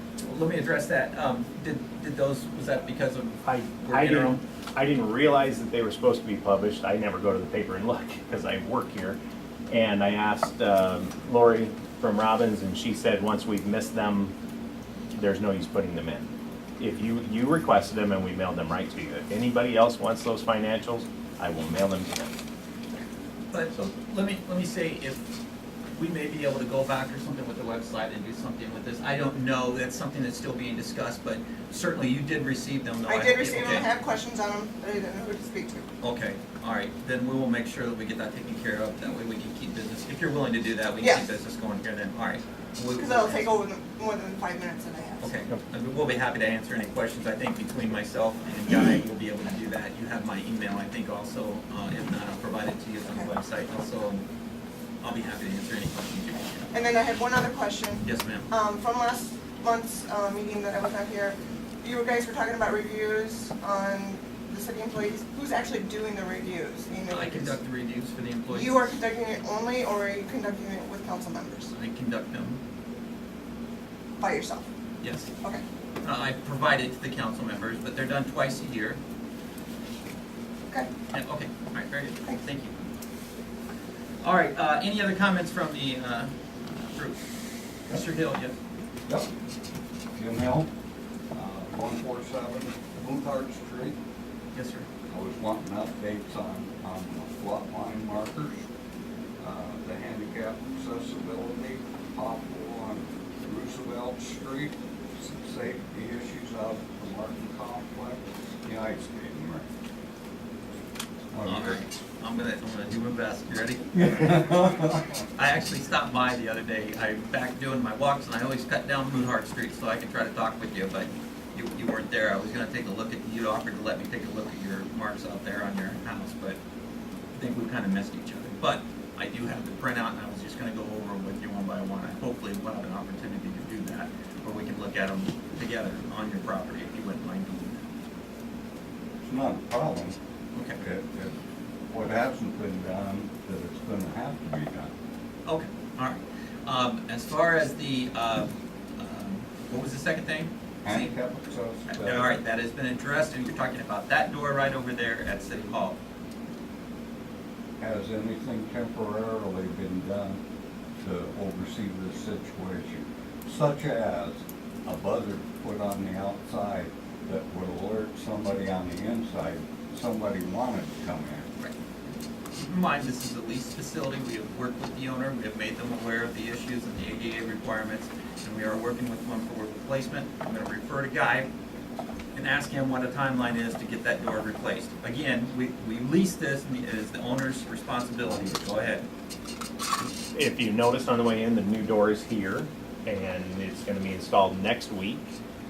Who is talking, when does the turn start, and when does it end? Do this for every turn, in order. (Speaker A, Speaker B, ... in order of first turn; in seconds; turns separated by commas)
Speaker A: 0.2-4.4, Speaker B: 3.4-9.2, Speaker B: 9.7-14.3, Speaker B: 15.1-16.3, Speaker B: 16.8-22.3, Speaker A: 23.5-25.2, Speaker A: 25.9-33.9, Speaker C: 33.0-35.9, Speaker A: 36.0-43.6, Speaker C: 41.0-41.3, Speaker C: 43.0-45.4, Speaker A: 45.2-54.2, Speaker A: 55.0-56.7, Speaker C: 56.7-67.6, Speaker A: 58.0-58.5, Speaker A: 67.1-69.0, Speaker C: 68.5-71.7, Speaker A: 71.7-72.6, Speaker C: 74.2-74.7, Speaker A: 75.0-75.3, Speaker A: 76.0-79.0, Speaker A: 81.1-82.8, Speaker A: 84.2-86.3, Speaker A: 86.9-87.2, Speaker A: 87.9-88.5, Speaker D: 90.1-90.7, Speaker D: 91.3-94.0, Speaker A: 94.5-94.9, Speaker D: 95.1-98.6, Speaker D: 99.4-109.7, Speaker D: 111.3-111.8, Speaker A: 111.5-114.4, Speaker D: 113.9-115.0, Speaker A: 115.3-126.6, Speaker A: 127.3-137.8, Speaker D: 139.2-140.2, Speaker A: 140.5-140.8, Speaker D: 140.8-141.3, Speaker D: 141.9-144.9, Speaker A: 145.4-151.1, Speaker D: 150.8-152.3, Speaker A: 151.9-156.0, Speaker D: 157.8-160.4, Speaker D: 161.0-171.4, Speaker A: 172.5-181.5, Speaker A: 182.3-189.1, Speaker B: 190.3-195.3